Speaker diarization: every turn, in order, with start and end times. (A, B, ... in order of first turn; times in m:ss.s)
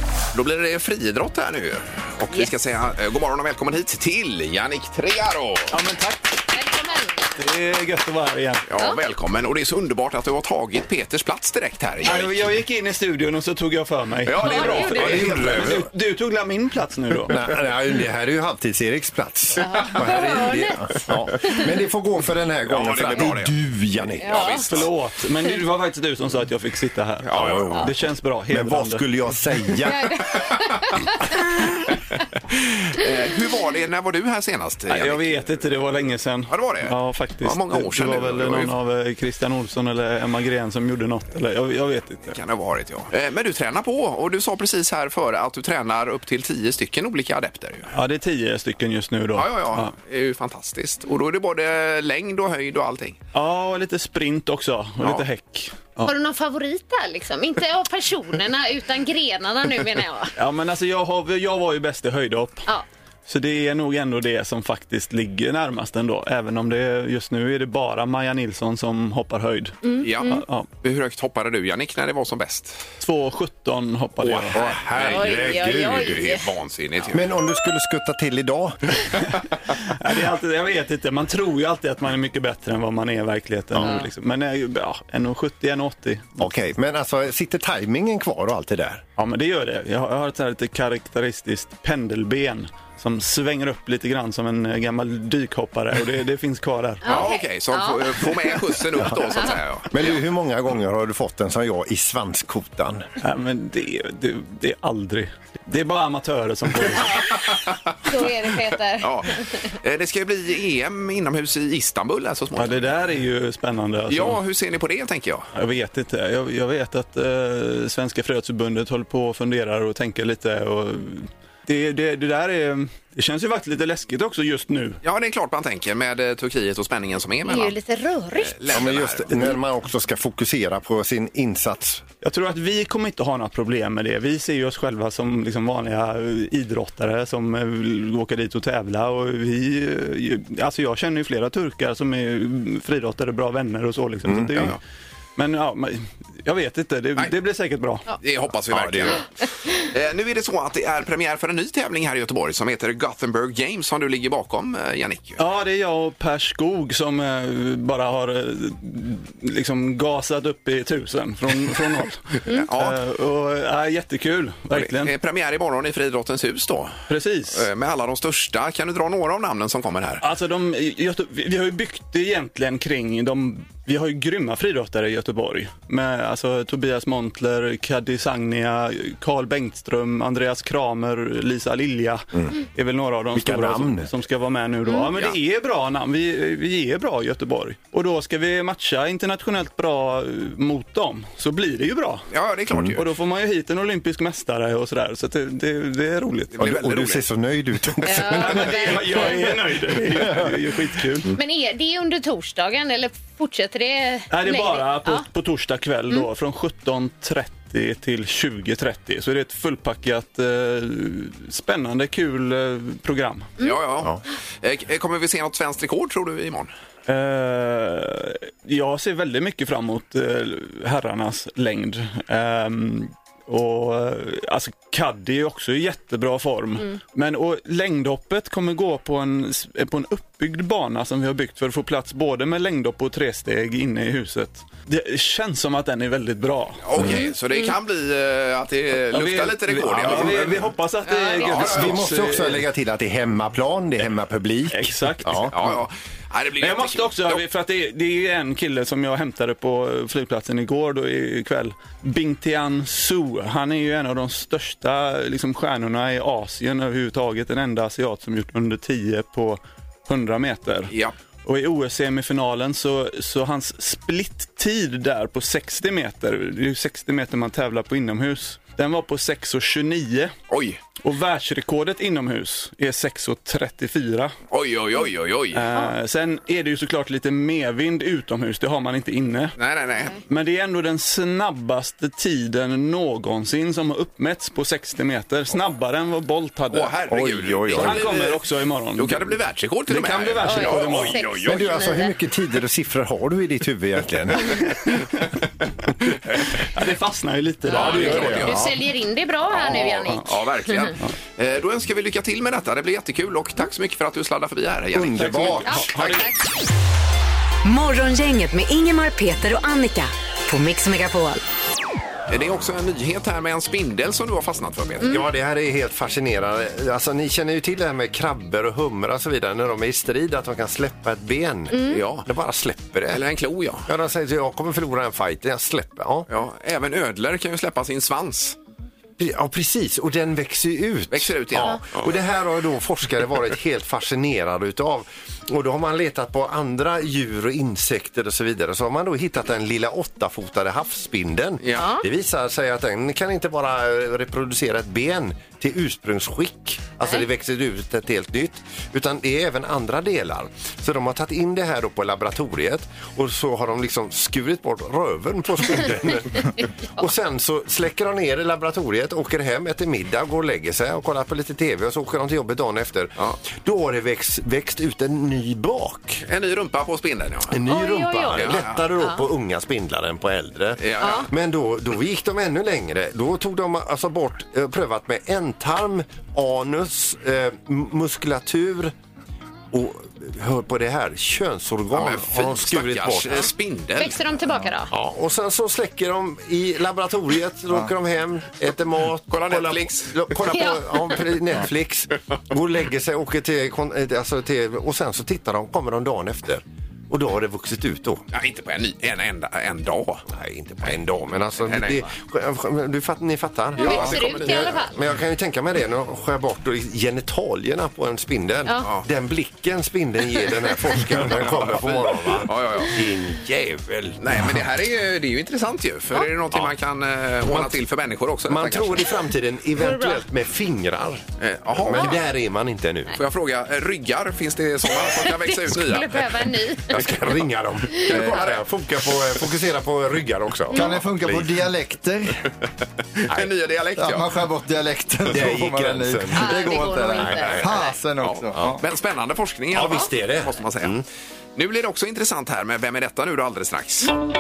0:00.3-0:05.7 A
0:05.7-0:06.4 B
0:06.5-0:07.3 C
0:07.4-0:08.7 B
0:08.7-0:12.4 A
0:12.0-0:17.4 B
0:14.2-0:15.9 A
0:14.4-0:15.3 C
0:14.9-0:15.9 D
0:17.3-0:24.8 D
0:19.6-0:21.7 C
0:22.7-0:23.5 A
0:24.2-0:24.7 C
0:24.2-0:24.8 A
0:24.7-0:29.1 B
0:27.2-0:27.8 A
0:27.3-0:27.9 D
0:28.5-0:30.2 D
0:29.9-0:31.4 C
0:32.5-0:35.4 A
0:34.9-0:42.4 B
0:36.5-0:38.7 A
0:42.3-0:47.9 A
0:47.9-0:49.9 B
0:49.4-0:53.2 A
0:53.3-0:56.1 B
0:56.0-1:00.3 C
1:00.4-1:02.6 B
1:03.3-1:10.7 B
1:09.8-1:10.4 C
1:10.0-1:12.8 A
1:13.0-1:14.6 B
1:14.2-1:17.2 A
1:14.5-1:16.3 D
1:15.0-1:16.5 C
1:17.1-1:19.1 D
1:19.8-1:26.4 B
1:23.7-1:24.0 D
1:26.4-1:29.0 D
1:29.2-1:37.2 B
1:37.0-1:38.6 C
1:37.0-1:40.0 A
1:39.9-1:43.0 D
1:43.2-1:47.2 B
1:47.0-1:47.4 C
1:47.5-1:47.9 A
1:48.0-1:49.6 C
1:49.0-1:52.9 A
1:52.6-1:54.4 B
1:54.1-1:55.5 A
1:55.5-2:05.0 B
2:05.0-2:07.8 A
2:07.5-2:08.7 C
2:08.4-2:09.6 A
2:08.7-2:12.0 D
2:12.2-2:24.8 B
2:24.2-2:24.8 D
2:25.4-2:28.0 B
2:28.1-2:29.2 A
2:28.7-2:29.2 D
2:29.8-2:35.4 A
2:35.4-2:45.1 B
2:42.5-2:43.0 A
2:44.7-2:47.0 A
2:47.1-2:47.6 B
2:47.5-2:50.2 A
2:50.2-3:12.3 B
3:03.3-3:04.1 D
3:12.3-3:13.1 A
3:12.7-3:13.0 D
3:13.0-3:16.5 B
3:16.6-3:17.2 A
3:16.6-3:18.8 D
3:18.0-3:19.5 C
3:18.4-3:21.3 B
3:20.0-3:20.5 D
3:21.3-3:25.2 C
3:24.3-3:33.5 B
3:33.6-3:36.7 A
3:37.1-3:56.8 B
3:56.8-4:00.7 A
3:57.0-3:57.7 C
3:59.1-4:02.6 B
4:01.1-4:01.5 C
4:01.4-4:02.0 A
4:01.5-4:05.5 D
4:04.7-4:05.7 B
4:05.5-4:07.4 A
4:06.6-4:20.9 B
4:20.9-4:21.2 A
4:21.5-4:30.3 B
4:30.5-4:30.8 A
4:31.0-4:34.3 B
4:34.5-4:35.6 A
4:35.5-4:39.6 B
4:39.6-4:40.2 A
4:40.3-4:47.0 B
4:46.7-4:48.4 A
4:47.1-4:48.1 D
4:47.7-4:49.4 B
4:49.0-4:51.8 A
4:49.9-4:51.2 B
4:50.4-4:52.2 C
4:51.4-4:54.7 D
4:56.7-4:58.5 B
4:57.7-4:58.7 A
4:57.7-5:01.0 C
4:57.8-4:58.7 D
4:59.5-5:06.2 A
5:04.9-5:06.0 D
5:05.2-5:06.2 B
5:06.0-5:06.3 C
5:07.6-5:11.4 E
5:12.3-5:15.2 A
5:15.0-5:23.2 D
5:21.7-5:22.0 C
5:21.9-5:22.2 A
5:23.1-5:23.9 A
5:23.8-5:26.3 D
5:26.3-5:28.6 A
5:29.2-6:06.2 D
5:31.1-5:32.1 A
5:41.6-5:41.9 A
5:41.8-5:42.0 C
6:06.3-6:07.6 A
6:07.5-6:18.9 D
6:07.6-6:09.2 C
6:08.3-6:08.8 A
6:10.8-6:11.3 A
6:11.0-6:11.3 C
6:19.7-6:23.5 D
6:21.9-6:24.2 A
6:24.0-6:24.9 C
6:24.9-6:38.2 D
6:29.3-6:30.7 A
6:38.3-6:40.3 A
6:40.3-6:54.6 D
6:41.6-6:42.1 A
6:43.8-6:44.8 A
6:43.8-6:44.9 C
6:51.1-6:53.0 A
6:54.2-6:59.2 A
6:57.4-6:57.7 D
6:58.5-7:03.2 D
6:59.8-7:00.2 C
7:01.4-7:02.2 A
7:03.2-7:06.3 A
7:04.9-7:07.2 C
7:06.8-7:11.6 D
7:07.9-7:08.3 C
7:08.0-7:08.6 A
7:10.8-7:12.4 F
7:13.3-7:14.3 A
7:14.0-7:18.8 F
7:15.2-7:17.7 D
7:16.3-7:17.9 C
7:18.2-7:21.0 A
7:19.7-7:21.0 D
7:21.6-7:24.1 A